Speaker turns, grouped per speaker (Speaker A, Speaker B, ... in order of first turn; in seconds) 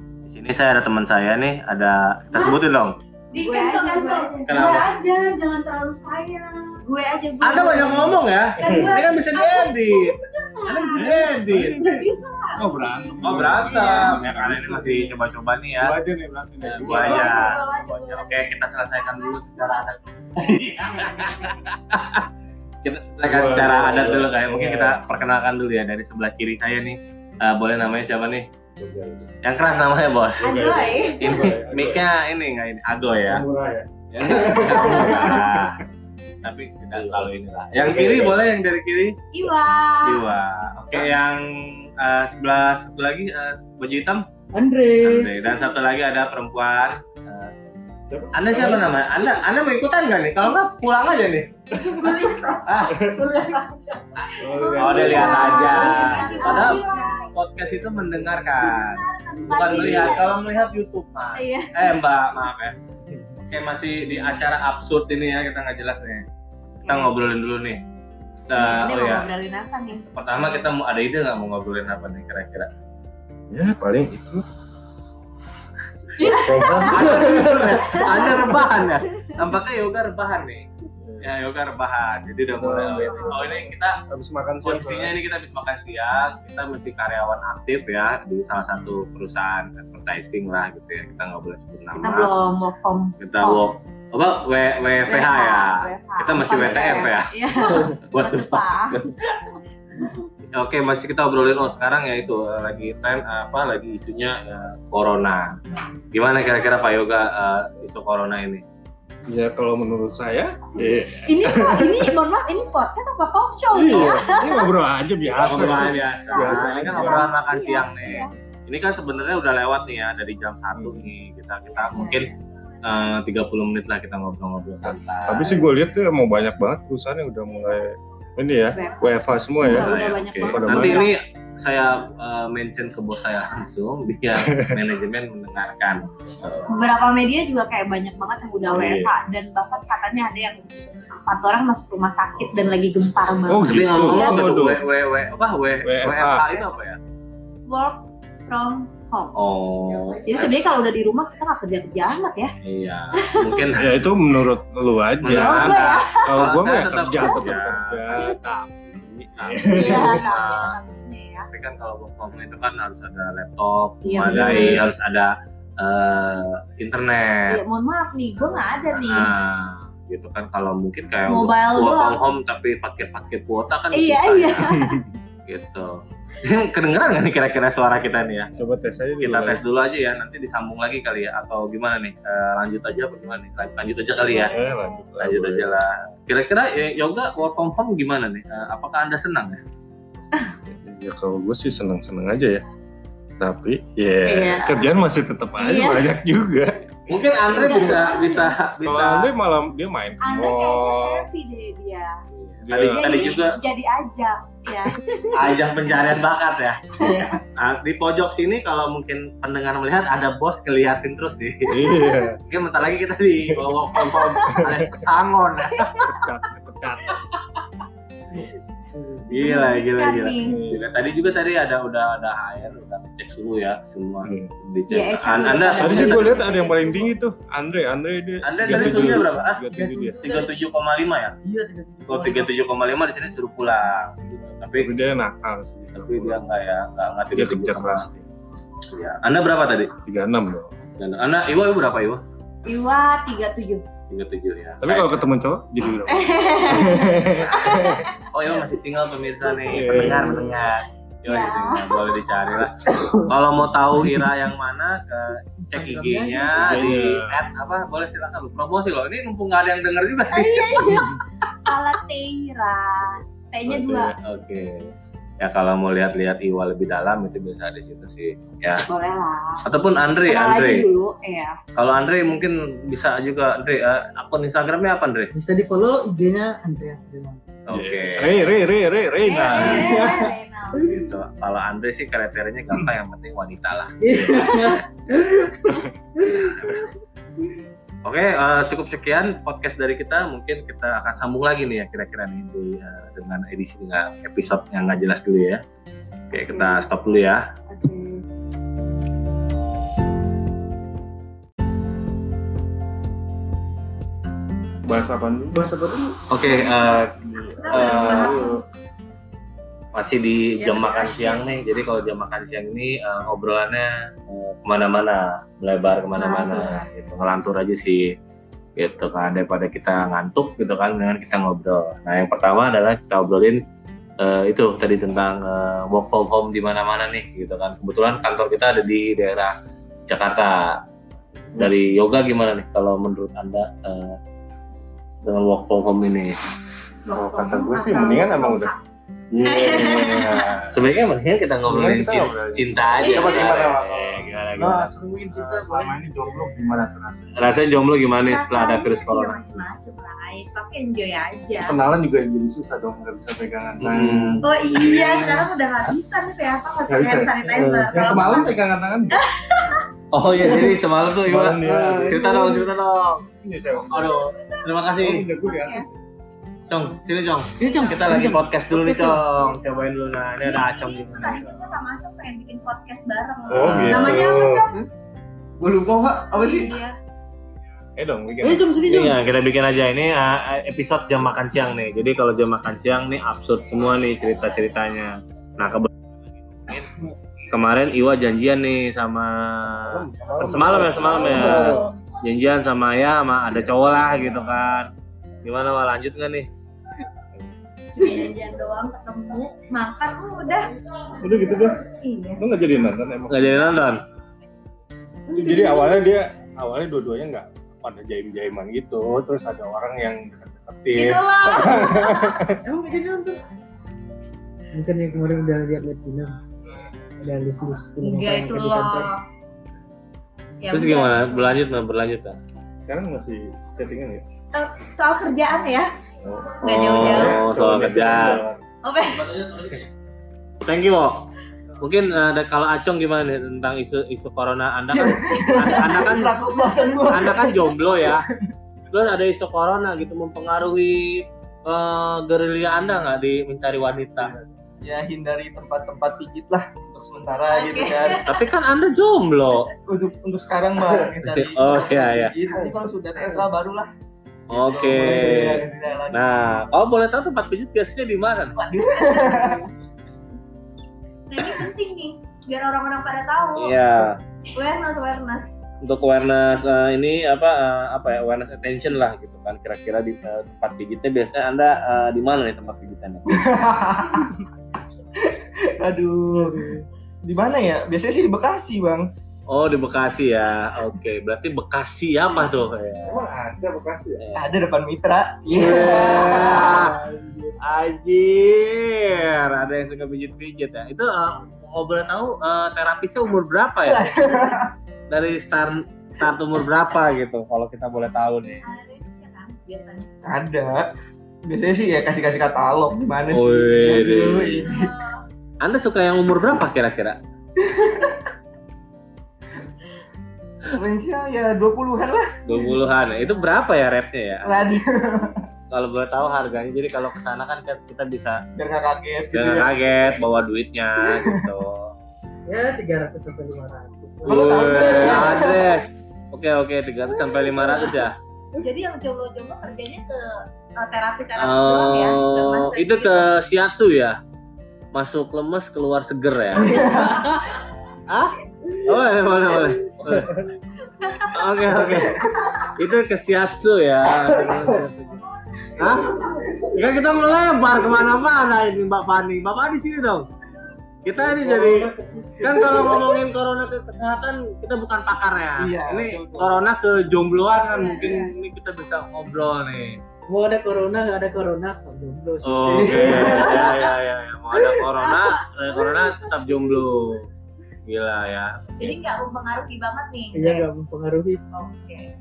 Speaker A: 0.2-3.0, 4.5-4.9, 7.4-11.8, 13.2-15.9, 16.6-22.3, 22.8-28.5, 29.4-30.6, 31.2-33.4, 34.1-35.8, 36.4-39.2, 40.0-44.2, 45.0-47.5, 48.3-51.5, 52.7-53.0, 54.8-62.8, 63.5-66.2, 66.9-67.8, 68.5-69.3, 70.1-72.7, 76.9-80.7, 81.2-84.0, 84.6-92.3, 93.2-97.3, 97.9-99.1, 100.5-105.6, 106.1-108.6, 115.4-122.3, 122.8-125.7, 129.7-136.8, 143.7-147.0, 149.3-150.5, 152.6-153.9, 155.2-158.3, 159.4-160.8, 161.5-167.6, 168.5-174.8, 175.5-178.5, 179.2-184.6, 185.2-189.6, 197.1-199.3, 202.3-203.6, 205.3-206.8, 207.6-211.8, 212.5-216.0, 219.3-226.4, 228.4-229.6, 230.2-231.3, 232.1-234.9, 235.9-238.1, 238.9-239.9, 241.0-242.2, 244.1-245.2, 247.2-261.2, 263.7-264.9, 265.4-268.9, 269.6-270.9, 271.8-275.3, 277.7-278.6, 279.6-280.0, 280.8-284.8, 286.4-286.7, 288.1-295.6, 296.3-297.5, 306.3-307.2, 307.7-308.4, 309.9-318.1, 318.8-323.6, 324.2-329.5, 330.1-330.8, 331.6-334.2, 335.2-336.4, 340.7-344.9, 347.4-349.7, 353.8-354.4, 360.1-363.2, 363.9-365.2, 366.7-371.8, 373.5-374.3, 378.8-386.9, 387.5-394.9, 395.4-396.5, 403.3-404.0, 420.7-422.4, 426.6-428.4, 429.2-429.9, 430.6-431.3, 431.8-436.3, 437.1-438.2, 438.9-444.3, 448.2-449.7, 451.3-452.4, 454.5-458.6, 463.6-464.1, 465.8-473.4, 479.5-483.2, 484.2-484.5, 485.5-487.0, 487.6-494.1, 495.1-498.6, 503.3-504.7, 505.6-507.2, 512.5-514.6, 515.7-518.4, 519.3-521.9, 524.3-528.2, 531.4-534.2, 534.9-536.9, 538.1-540.5, 541.3-542.2, 542.8-545.2, 545.8-550.3, 551.0-560.0, 562.4-567.3, 567.9-569.0
Speaker B: 3.3-5.0, 6.8-14.2, 16.8-19.9, 30.4-31.5, 35.1-35.4, 39.3-40.3, 51.8-57.3, 58.5-62.0, 66.8-67.2, 68.5-70.0, 76.2-78.5, 82.9-83.5, 91.9-93.7, 95.0-99.0, 111.3-114.7, 115.3-118.3, 121.8-122.3, 128.7-131.1, 136.7-144.5, 147.7-149.4, 150.2-152.5, 153.2-153.6, 155.3-156.4, 157.2-157.6, 159.7-161.5, 164.0-164.8, 167.5-169.3, 171.3-172.2, 173.9-175.1, 184.3-184.7, 194.2-194.8, 195.6-196.1, 197.5-198.5, 200.2-202.2, 202.9-205.7, 207.0-207.3, 214.1-214.6, 215.8-216.2, 219.4-220.6, 224.9-227.1, 242.7-243.8, 246.1-248.1, 251.2-252.2, 260.3-264.1, 268.8-269.7, 270.2-271.6, 279.2-280.9, 307.4-308.6, 310.6-311.5, 316.1-316.9, 337.1-338.8, 339.4-340.5, 343.0-343.6, 348.3-351.8, 354.4-359.9, 363.9-364.8, 365.4-365.9, 367.6-368.1, 370.4-374.7, 376.3-377.0, 391.2-391.9, 397.9-400.7, 401.8-402.4, 410.9-412.5, 418.0-419.2, 420.6-421.6, 424.5-425.9, 426.6-427.4, 428.8-429.3, 435.5-436.9, 447.5-448.4, 459.0-459.4, 461.3-463.8, 464.6-465.5, 498.6-500.1, 504.6-505.2, 528.6-533.3, 538.4-538.8, 540.9-541.3, 542.4-542.7, 545.3-546.5, 557.7-558.3, 568.8-570.7, 571.5-572.1
Speaker C: 3.4-6.4, 56.0-56.9
Speaker D: 11.0-15.2, 15.8-17.6, 23.2-25.0, 28.8-29.3, 30.4-32.1, 33.3-35.7, 36.9-38.4, 48.1-49.0, 54.4-56.4, 59.7-60.2, 73.5-74.4, 76.2-78.4, 81.0-81.3, 82.5-85.2, 109.3-112.1, 113.7-117.3, 120.8-121.0, 124.8-131.1, 134.5-134.8, 138.7-139.2, 143.5-144.8, 145.8-146.4, 153.8-160.3, 164.2-164.8, 178.6-179.6, 184.2-185.7, 190.7-192.6, 193.4-197.0, 197.5-198.2, 198.8-201.3, 202.6-203.3, 211.7-212.4, 216.0-217.2, 220.4-220.9, 224.2-224.5, 225.7-230.2, 234.8-236.4, 237.3-238.3, 240.0-240.7, 244.8-248.0, 249.7-250.6, 256.6-257.4, 263.7-264.1, 277.7-280.3, 304.9-305.7, 307.3-308.6, 337.1-338.7, 339.3-340.8, 341.6-347.6, 351.5-355.4, 356.9-359.2, 361.2-362.3, 363.4-364.1, 365.0-365.9, 373.5-374.7, 378.0-378.7, 389.8-391.9, 393.5-394.6, 401.2-401.8, 402.4-403.7, 405.3-412.6, 422.8-424.2, 426.2-428.6, 483.1-484.2, 486.8-487.5
Speaker E: 44.5-45.3, 218.9-219.3, 228.7-229.1, 229.7-230.6, 231.4-232.5, 255.7-257.0, 275.3-277.4, 279.7-281.1, 284.0-286.5, 296.5-296.8, 297.7-298.2, 305.5-306.1, 345.3-346.0, 361.6-362.7, 367.6-369.2, 378.4-379.2, 405.3-406.0, 412.6-413.4, 414.7-416.4, 417.2-419.1, 476.4-476.9, 522.5-525.4, 527.6-527.9, 560.3-563.9, 564.8-566.1, 570.3-571.4
Speaker F: 375.6-376.8, 434.9-438.2, 444.8-448.2, 449.9-453.9, 454.5-456.3, 458.5-459.7, 473.3-474.3, 475.2-476.7, 477.2-479.1, 484.4-486.8, 493.9-494.7, 500.3-500.9, 501.4-505.0, 507.6-508.2, 510.7-512.6, 514.4-515.4, 518.5-519.7, 521.0-521.4, 524.3-525.7, 536.5-537.3, 542.0-542.3, 545.8-546.6, 551.2-553.1, 555.6-556.6, 562.7-563.7